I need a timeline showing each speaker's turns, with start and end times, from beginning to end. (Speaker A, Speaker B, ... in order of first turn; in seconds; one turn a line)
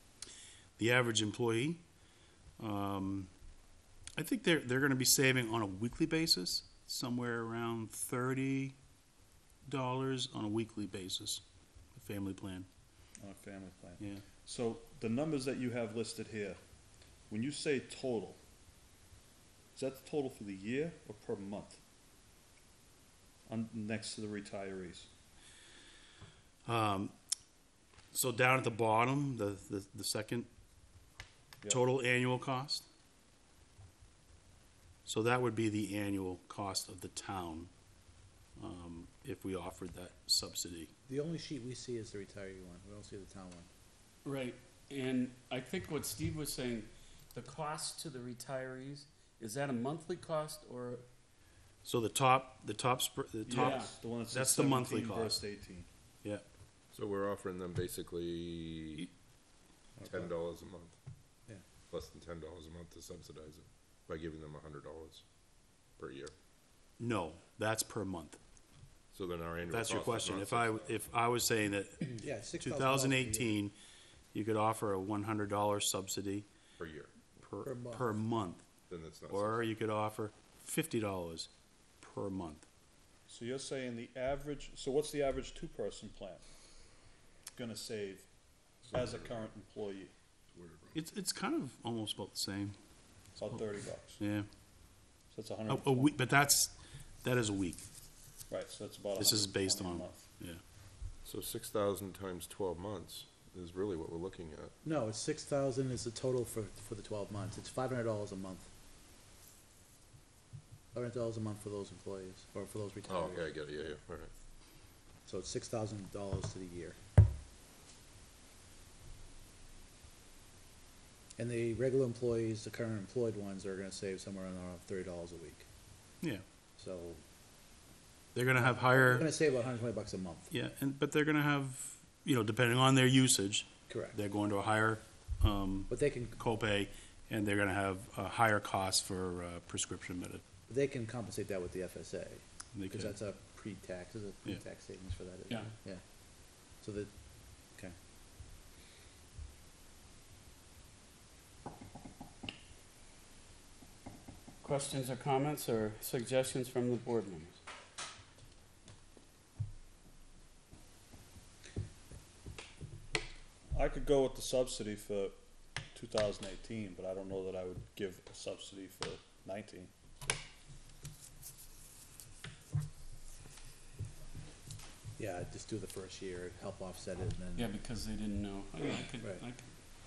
Speaker A: 0.8-1.8
Speaker A: 2.6-3.3
Speaker A: 4.2-8.8
Speaker A: 9.7-11.4
Speaker A: 11.9-12.7
Speaker B: 13.2-16.6
Speaker B: 17.3-18.4
Speaker B: 19.7-21.8
Speaker B: 23.5-25.1
Speaker A: 26.6-27.1
Speaker A: 28.1-30.5
Speaker A: 31.7-32.8
Speaker A: 35.0-37.7
Speaker A: 38.6-40.9
Speaker C: 41.1-43.7
Speaker D: 44.2-51.0
Speaker A: 51.8-55.4
Speaker B: 53.4-55.9
Speaker D: 53.5-53.9
Speaker E: 56.9-59.1
Speaker C: 60.0-60.3
Speaker E: 60.0-61.0
Speaker E: 61.9-65.2
Speaker E: 66.0-66.3
Speaker A: 67.0-68.4
Speaker E: 69.1-71.1
Speaker A: 69.7-73.7
Speaker C: 72.0-73.6
Speaker A: 74.3-76.5
Speaker E: 76.8-77.2
Speaker A: 77.4-78.7
Speaker C: 77.6-78.2
Speaker E: 78.9-79.7
Speaker A: 79.3-81.5
Speaker A: 82.0-82.7
Speaker B: 83.3-86.4
Speaker B: 87.5-88.3
Speaker E: 88.8-89.4
Speaker B: 88.9-90.1
Speaker E: 90.5-91.0
Speaker A: 91.0-92.8
Speaker B: 93.4-94.2
Speaker A: 94.2-94.5
Speaker B: 95.3-96.1
Speaker A: 95.7-97.8
Speaker B: 98.5-100.3
Speaker A: 99.2-100.6
Speaker E: 101.2-104.7
Speaker C: 104.8-108.7
Speaker C: 110.9-114.0
Speaker E: 113.0-114.3
Speaker C: 115.2-117.0
Speaker C: 121.4-125.7
Speaker C: 126.8-127.2
Speaker A: 128.3-129.3
Speaker C: 128.6-130.5
Speaker A: 130.5-140.4
Speaker C: 133.9-134.2
Speaker C: 135.9-136.4
Speaker C: 140.7-147.1
Speaker A: 142.7-143.1
Speaker D: 154.6-157.6
Speaker B: 163.7-165.4
Speaker B: 165.9-169.9
Speaker C: 175.2-177.8
Speaker D: 177.6-179.6